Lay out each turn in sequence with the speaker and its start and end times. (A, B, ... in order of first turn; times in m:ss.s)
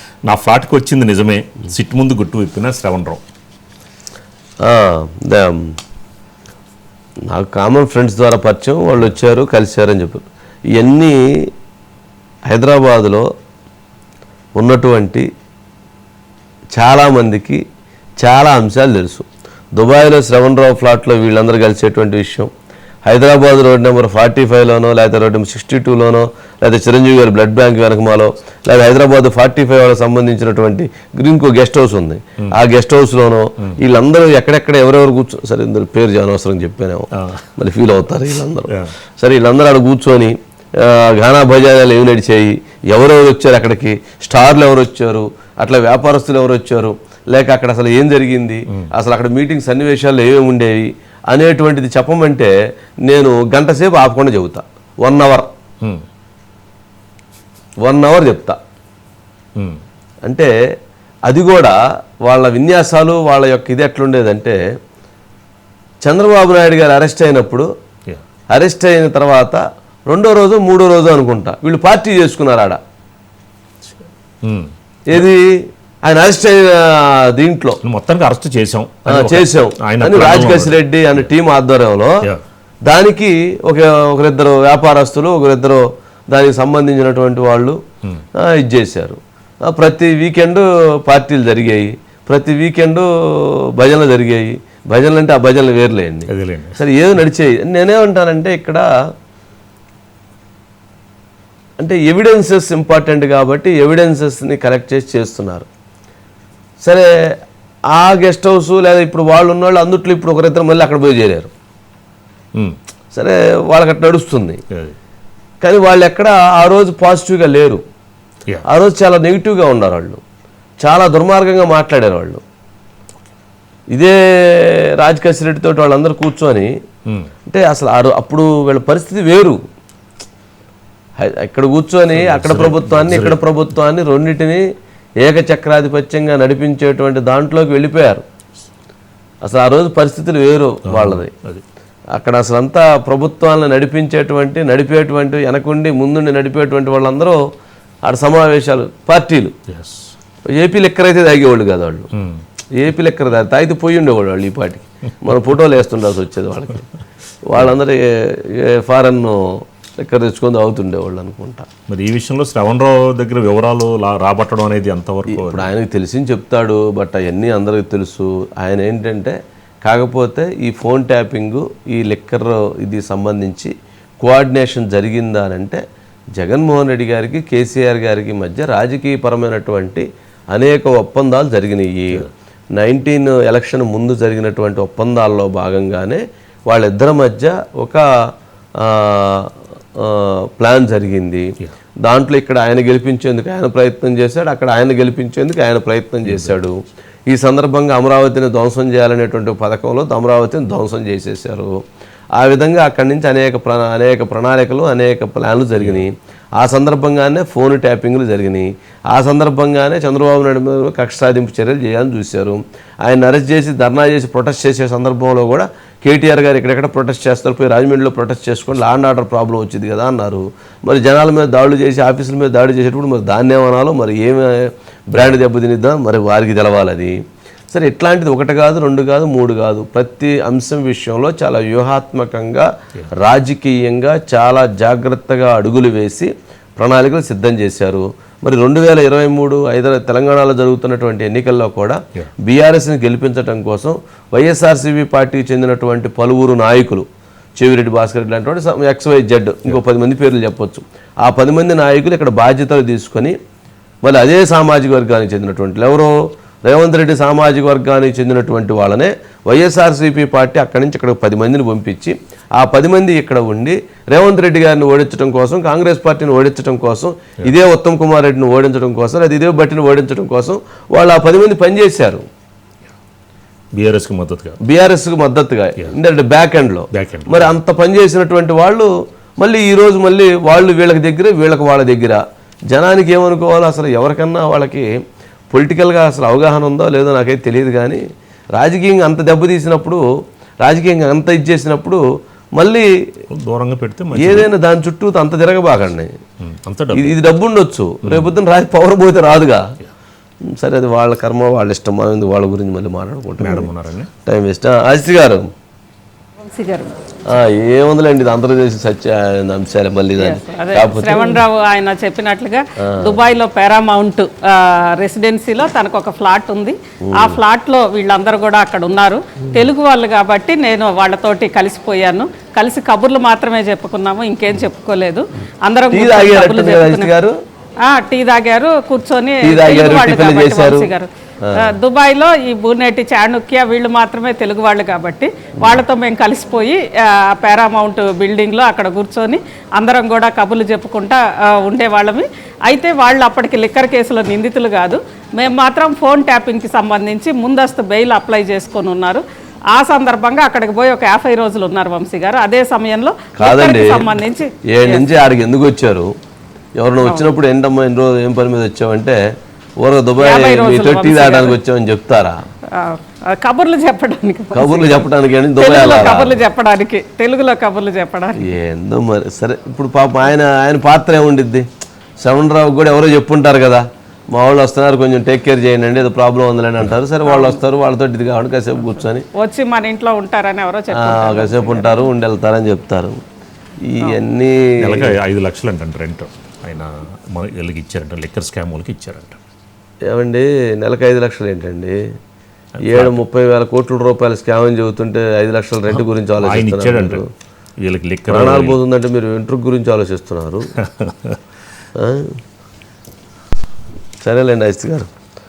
0:00.3-0:03.2 A
0:04.6-0:05.6 B
0:07.3-0:11.2 B
0:12.5-0:13.2 B
0:14.6-0:15.3 B
0:16.8-0:17.6 B
0:18.2-0:22.5 B
0:23.0-0:52.5 B
0:37.2-0:37.4 A
0:53.1-0:55.5 B
0:57.8-0:58.6 B
1:01.3-1:04.6 B
1:06.0-1:07.7 B
1:08.5-1:12.8 B
1:14.4-1:14.7 A
1:15.1-1:17.8 B
1:17.8-1:20.8 A
1:19.1-1:22.2 B
1:22.9-1:27.8 B
1:28.4-1:38.8 B
1:36.3-1:36.8 A
1:41.8-1:45.7 B
1:46.8-1:47.1 B
1:48.0-1:51.5 B
1:53.1-1:54.6 B
1:54.7-1:55.0 A
1:55.6-1:57.8 B
1:58.7-2:00.2 B
2:00.8-2:02.4 B
2:03.9-2:06.7 B
2:07.5-2:09.6 B
2:11.2-2:14.6 B
2:12.1-2:13.4 A
2:15.2-2:18.2 B
2:19.4-2:21.3 B
2:20.9-2:21.6 A
2:22.2-2:27.4 B
2:28.0-2:29.5 B
2:29.7-2:30.1 A
2:30.4-2:32.1 B
2:32.2-2:32.4 A
2:32.8-2:36.9 B
2:37.5-2:41.7 B
2:41.9-2:45.7 A
2:45.3-2:53.7 B
2:54.2-2:55.8 B
2:56.4-3:08.0 B
3:08.8-3:11.5 B
3:12.0-3:21.8 B
3:16.2-3:16.6 A
3:22.4-3:47.2 B
3:47.7-3:52.7 B
3:53.2-4:07.0 B
4:07.6-4:13.4 B
4:14.0-4:16.1 B
4:16.6-4:32.2 B
4:33.7-4:34.6 A
4:34.6-4:42.2 B
4:36.9-4:37.5 A
4:42.7-4:44.9 B
4:45.5-4:48.0 B
4:48.6-4:50.0 B
4:50.6-4:52.0 B
4:52.6-4:52.9 B
4:53.3-4:54.5 A
4:54.2-4:56.1 B
4:56.4-4:57.2 A
4:56.9-4:59.6 B
5:00.5-5:03.7 B
5:03.4-5:04.1 A
5:04.2-5:05.5 B
5:06.5-5:07.0 C
5:07.3-5:11.4 B
5:10.2-5:27.1 C
5:12.8-5:13.1 B
5:17.0-5:17.4 B
5:25.9-5:27.4 B
5:27.8-5:55.1 C
5:29.4-5:31.7 B
5:53.4-5:54.1 B
5:54.7-5:56.1 B
5:56.8-5:59.2 B
5:57.0-5:57.4 C
5:59.8-6:02.4 B
6:00.2-6:01.6 C
6:02.7-6:08.4 C
6:04.5-6:06.4 B
6:08.4-6:11.7 B
6:12.2-6:19.3 B
6:17.2-6:17.6 C
6:19.4-6:22.1 C
6:20.9-6:23.2 B
6:23.9-6:25.1 B
6:24.8-6:29.4 A
6:30.1-6:32.0 B
6:32.8-6:33.2 A
6:32.9-6:37.2 B
6:35.9-6:37.2 A
6:37.8-6:38.8 A
6:38.3-6:40.7 B
6:40.8-6:41.4 A
6:42.0-6:42.4 B
6:44.2-6:45.1 B